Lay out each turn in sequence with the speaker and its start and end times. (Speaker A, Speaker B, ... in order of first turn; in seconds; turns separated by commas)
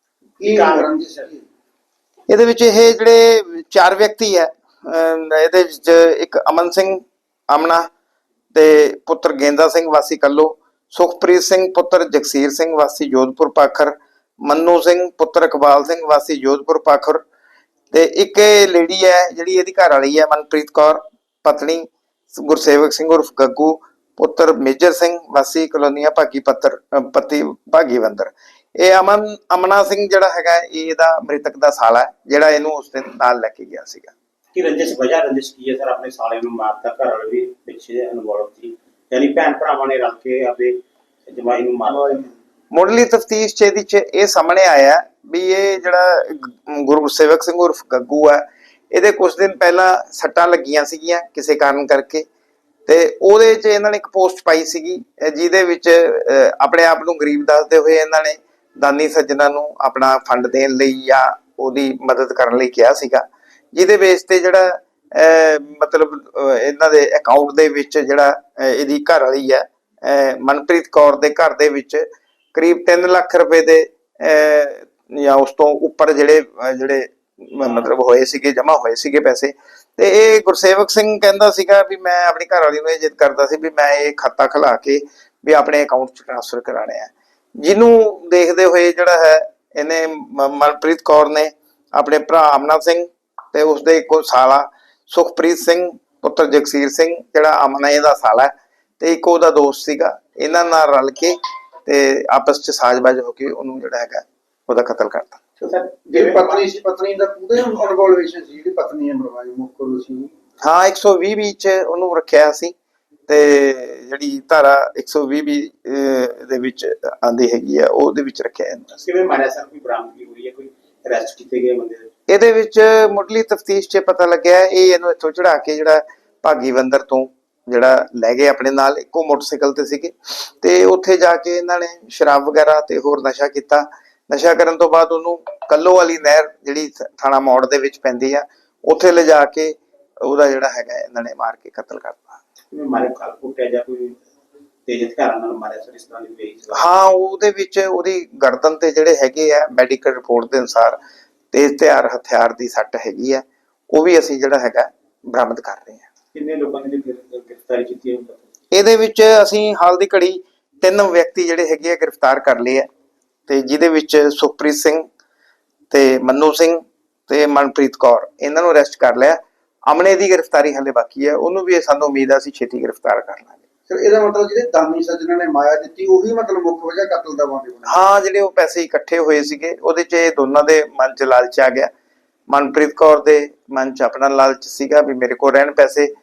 Speaker A: 0.4-1.4, Speaker B: 0.4-0.9, Speaker C: 2.3-7.9, Speaker C: 8.5-17.2, Speaker C: 17.9-34.1, Speaker B: 34.5-42.3, Speaker C: 42.7-52.2, Speaker C: 52.9-105.4, Speaker B: 105.6-106.7, Speaker A: 106.1-110.3, Speaker C: 110.6-112.7, Speaker C: 113.3-119.0, Speaker B: 119.0-122.1, Speaker C: 122.3-142.4, Speaker B: 142.7-144.2, Speaker B: 144.9-146.9, Speaker C: 146.7-151.0, Speaker C: 151.5-156.1, Speaker B: 156.3-158.4, Speaker C: 158.7-162.9, Speaker C: 163.5-165.1, Speaker C: 165.9-173.6, Speaker A: 173.9-178.1, Speaker C: 177.9-181.9, Speaker C: 182.5-186.1